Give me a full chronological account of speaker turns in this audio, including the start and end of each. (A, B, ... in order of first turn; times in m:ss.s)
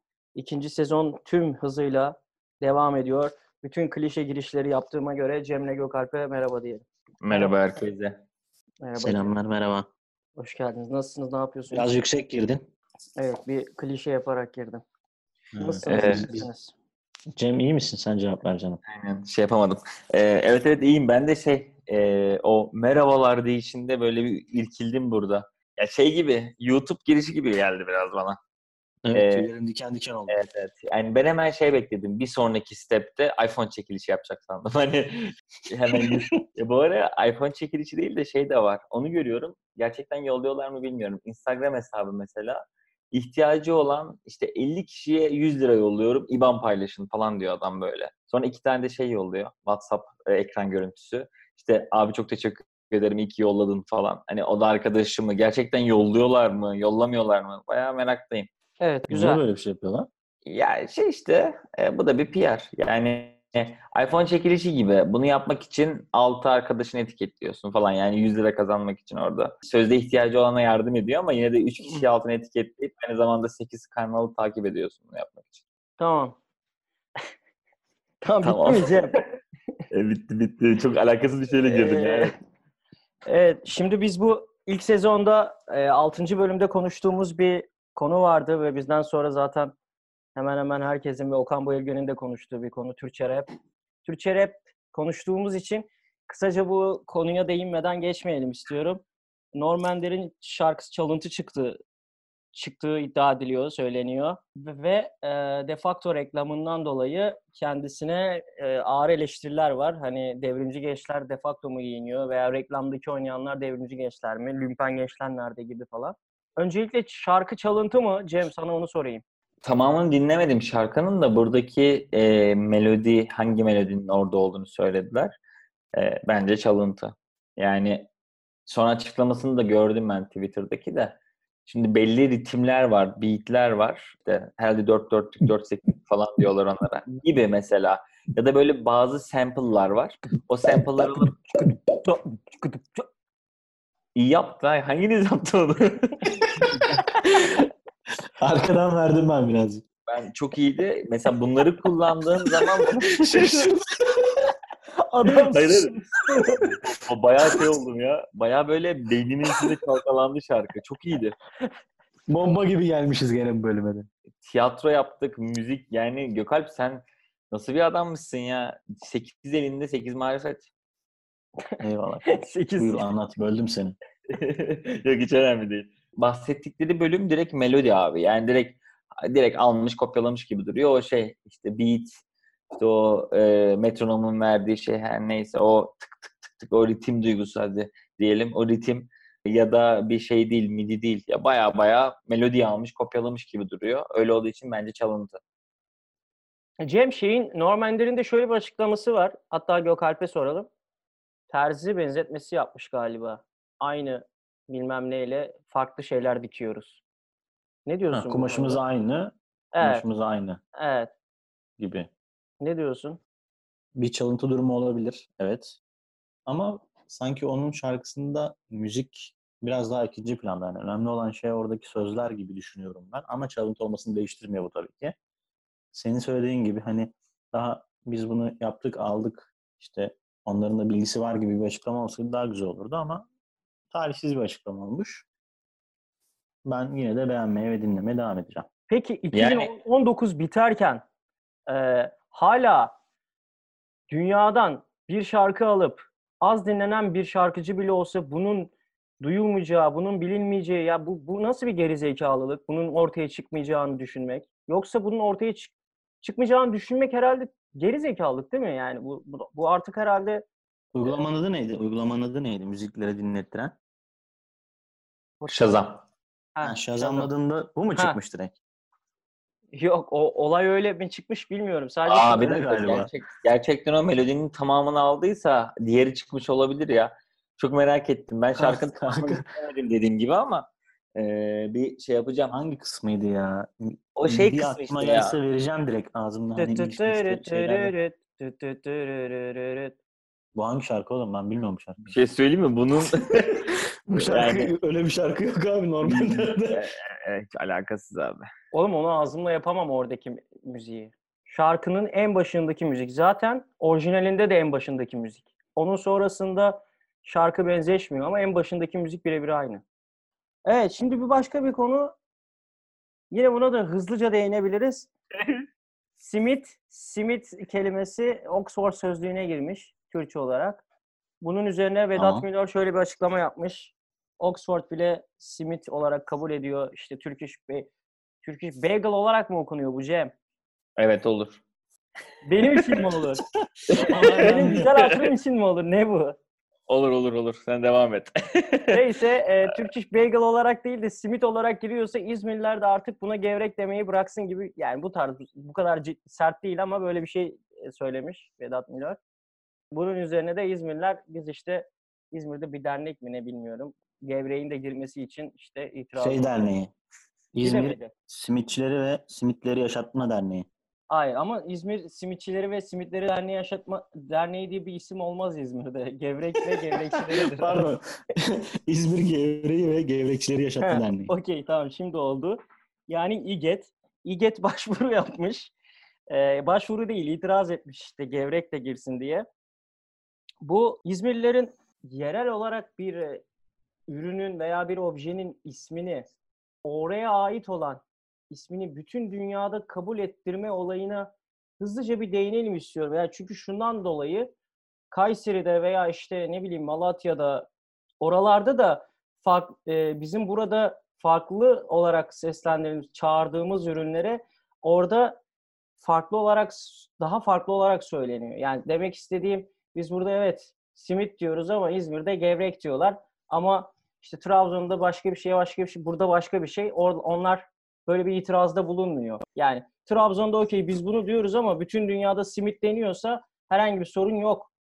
0:00.4-0:07.6 A
0:07.2-0:08.2 B
0:08.8-0:09.3 A
0:09.0-0:09.9 C
0:10.4-0:11.9 A
0:11.7-0:12.6 C
0:13.2-0:14.8 A
0:15.5-0:16.5 C
0:15.6-0:16.7 A
0:15.8-0:16.3 B
0:17.4-0:18.8 C
0:18.9-0:28.4 B
0:29.0-0:30.4 C
0:29.1-0:29.5 B
0:30.3-0:42.6 B
0:43.1-0:58.5 B
0:58.8-0:59.4 A
0:59.1-1:00.1 C
1:00.5-1:15.6 B
1:16.0-1:16.4 A
1:18.2-1:19.3 A
1:18.4-1:19.2 B
1:19.9-1:22.4 B
1:21.6-1:22.3 A
1:23.2-1:29.8 A
1:30.4-1:33.5 A
1:34.0-1:39.0 A
1:39.6-1:41.8 A
1:42.5-1:59.2 A
1:59.6-2:05.3 B
2:05.9-2:08.1 B
2:08.7-2:21.4 B
2:20.7-2:21.3 C
2:24.2-2:26.9 B
2:26.6-2:27.6 C
2:28.4-2:29.8 C
2:30.1-2:33.7 B
2:32.5-2:34.5 C
2:35.0-2:36.7 C
2:35.5-2:35.9 B
2:36.6-2:41.4 B
2:42.3-2:44.1 C
2:44.4-2:50.7 B
2:51.8-2:54.0 C
2:52.3-2:53.0 A
2:54.3-3:02.1 B
3:02.7-3:15.4 B
3:16.8-3:20.7 A
3:21.5-3:27.0 A
3:27.9-3:28.8 A
3:28.1-3:30.6 C
3:29.7-3:30.1 A
3:30.8-3:31.1 A
3:31.8-3:32.1 C
3:32.6-3:33.2 A
3:34.0-3:35.8 C
3:36.5-3:45.2 C
3:45.9-3:53.3 C
3:53.9-3:55.3 C
3:56.7-3:58.7 C
3:58.9-4:01.0 A
3:59.3-3:59.7 B
4:01.7-4:03.0 A
4:04.1-4:20.4 A
4:20.9-4:23.8 C
4:25.4-4:25.8 A
4:25.5-4:26.0 B
4:26.6-4:27.3 A
4:26.6-4:28.6 C
4:29.8-4:32.8 A
4:32.1-4:42.6 B
4:32.3-4:33.1 C
4:38.6-4:39.4 C
4:42.5-4:47.9 C
4:44.2-4:45.4 B
4:46.6-4:50.0 A
4:50.6-4:52.1 C
4:52.1-4:54.7 B
4:53.6-4:56.9 C
4:56.0-4:58.5 B
4:58.7-5:09.8 A
5:10.7-5:12.1 A
5:13.3-5:15.1 A
5:16.2-5:20.8 A
5:21.4-5:27.9 A
5:22.2-5:22.4 C
5:28.4-5:30.3 A
5:31.0-5:31.6 B
5:32.4-5:33.4 A
5:33.9-5:35.3 B
5:34.1-5:34.9 C
5:34.4-5:36.4 A
5:36.9-5:39.0 B
5:38.9-5:49.2 A
5:49.9-5:56.6 A
5:56.2-5:56.9 C
5:57.5-6:00.7 C
5:57.6-5:58.1 A
6:01.1-6:07.9 A
6:06.7-6:11.3 C
6:10.8-6:15.7 A
6:16.3-6:19.5 A
6:20.6-6:23.4 A
6:24.1-6:26.3 A
6:26.8-6:34.5 A
6:35.1-6:37.7 A
6:38.2-6:45.4 A
6:46.0-7:04.7 A